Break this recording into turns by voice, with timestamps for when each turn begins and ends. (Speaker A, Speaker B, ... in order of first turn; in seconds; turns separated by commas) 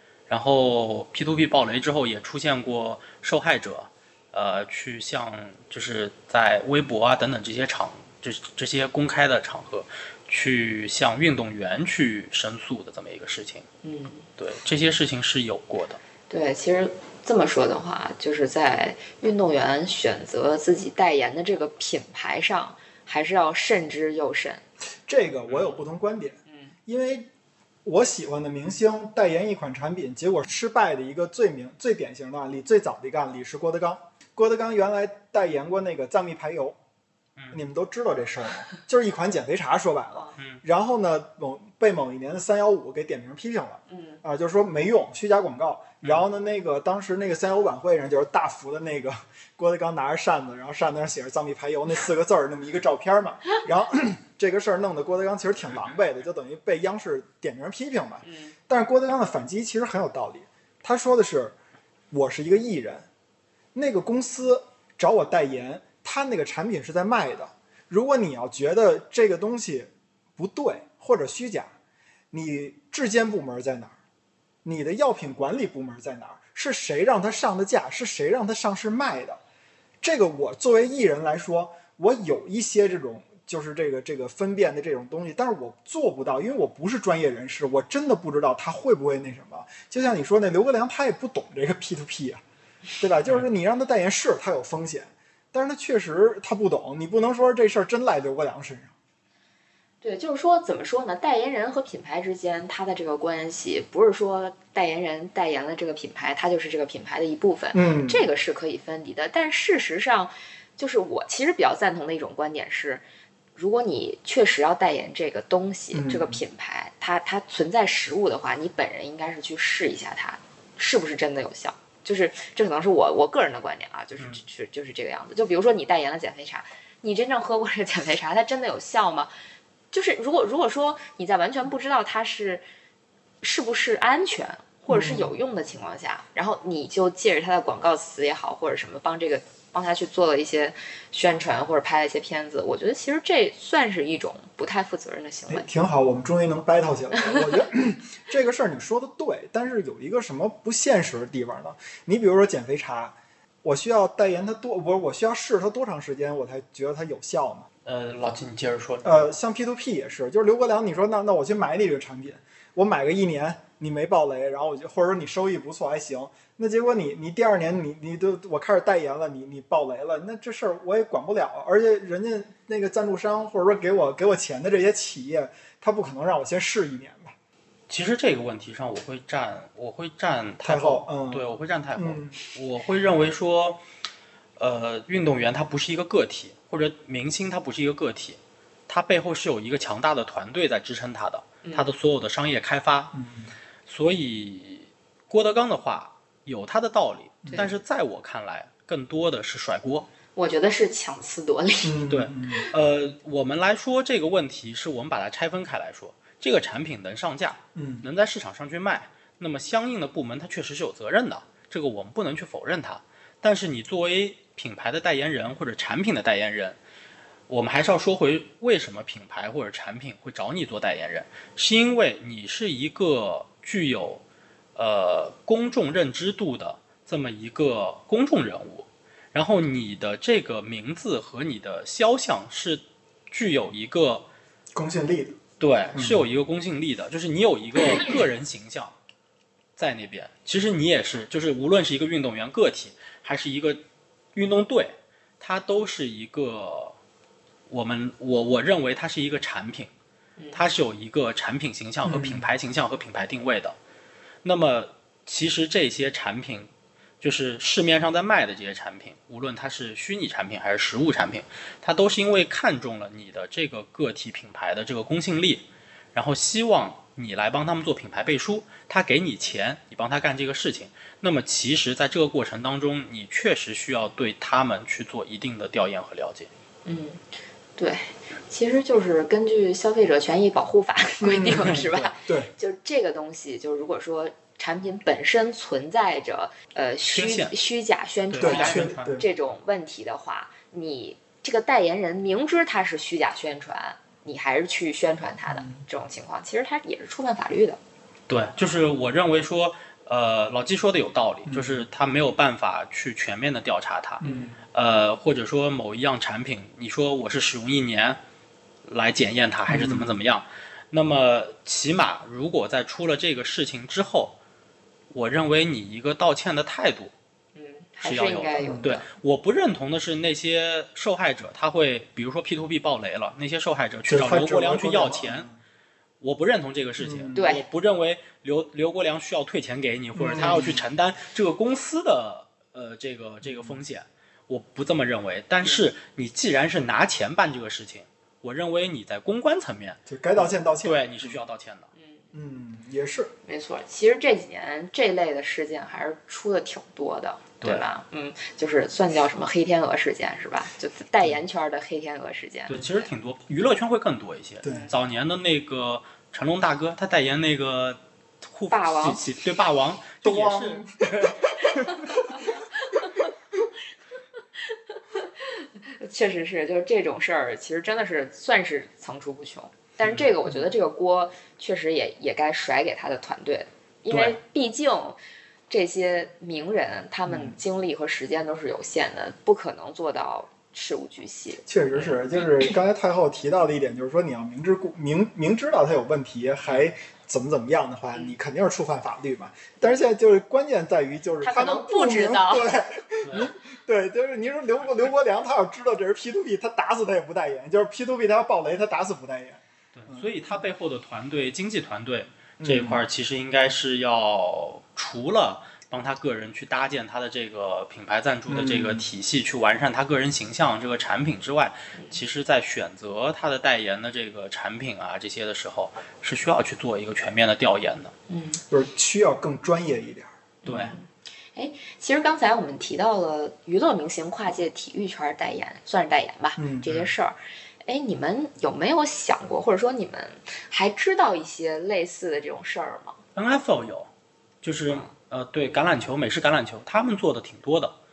Speaker A: 0.3-13.7, Speaker B: 13.8-14.2, Speaker A: 14.4-16.0, Speaker B: 16.3-24.6, Speaker C: 25.1-27.3, Speaker A: 25.5-25.8, Speaker B: 26.5-26.7, Speaker C: 27.8-36.8, Speaker C: 37.5-61.5, Speaker B: 40.1-40.4, Speaker B: 43.9-44.2, Speaker B: 58.2-58.5, Speaker C: 62.1-63.1, Speaker C: 63.7-71.7, Speaker C: 72.3-74.0, Speaker C: 74.6-79.4, Speaker C: 80.0-92.4, Speaker C: 93.0-98.9, Speaker B: 100.0-113.0, Speaker C: 107.7-108.2, Speaker B: 113.5-129.3, Speaker C: 115.9-116.4, Speaker B: 129.9-132.6, Speaker B: 133.4-145.7, Speaker C: 134.9-135.3, Speaker C: 145.5-157.7, Speaker B: 147.2-147.6, Speaker A: 157.8-159.3, Speaker C: 159.0-177.3, Speaker A: 177.9-183.8, Speaker C: 180.6-182.4, Speaker A: 184.6-193.1, Speaker B: 191.6-191.9, Speaker C: 193.1-193.5, Speaker A: 193.9-200.1, Speaker B: 200.3-202.0, Speaker C: 201.8-202.7, Speaker A: 202.1-216.8, Speaker C: 207.7-208.0, Speaker A: 217.5-224.2, Speaker A: 224.8-234.3, Speaker C: 234.7-235.4, Speaker A: 235.6-238.9, Speaker C: 235.9-236.2, Speaker A: 239.8-243.8, Speaker A: 244.3-246.9, Speaker A: 247.7-249.9, Speaker A: 250.5-253.7, Speaker C: 252.0-252.5, Speaker A: 254.4-256.7, Speaker A: 257.2-276.5, Speaker B: 276.8-277.2, Speaker B: 277.8-297.8, Speaker C: 281.2-282.5, Speaker A: 281.7-282.1, Speaker A: 287.1-287.6, Speaker A: 288.3-289.2, Speaker C: 288.4-289.2, Speaker C: 295.5-295.8, Speaker A: 298.3-308.2, Speaker C: 301.5-301.9, Speaker C: 304.2-304.6, Speaker B: 304.2-304.5, Speaker A: 308.9-314.4, Speaker C: 309.7-310.2, Speaker A: 315.1-317.1, Speaker B: 317.5-319.1, Speaker A: 318.0-325.5, Speaker C: 318.6-318.9, Speaker C: 324.1-325.6, Speaker A: 326.2-341.9, Speaker C: 327.0-327.4, Speaker B: 327.3-327.6, Speaker C: 330.1-330.8, Speaker C: 333.4-333.8, Speaker C: 340.1-341.4, Speaker B: 341.9-342.3, Speaker C: 342.3-343.3, Speaker B: 343.4-353.0, Speaker A: 352.7-361.5, Speaker C: 354.6-354.9, Speaker B: 358.7-359.2, Speaker C: 360.2-362.2, Speaker B: 361.9-363.3, Speaker B: 364.6-382.4, Speaker A: 374.1-374.4, Speaker C: 377.3-377.6, Speaker C: 381.7-400.3, Speaker B: 391.4-392.7, Speaker A: 393.2-393.5, Speaker A: 399.9-418.1, Speaker C: 402.6-403.0, Speaker C: 408.5-409.1, Speaker B: 418.3-418.6, Speaker C: 418.7-420.9, Speaker A: 420.6-420.9, Speaker B: 420.6-433.2, Speaker C: 426.6-426.9, Speaker A: 426.9-427.1, Speaker A: 433.4-434.1, Speaker A: 434.6-437.9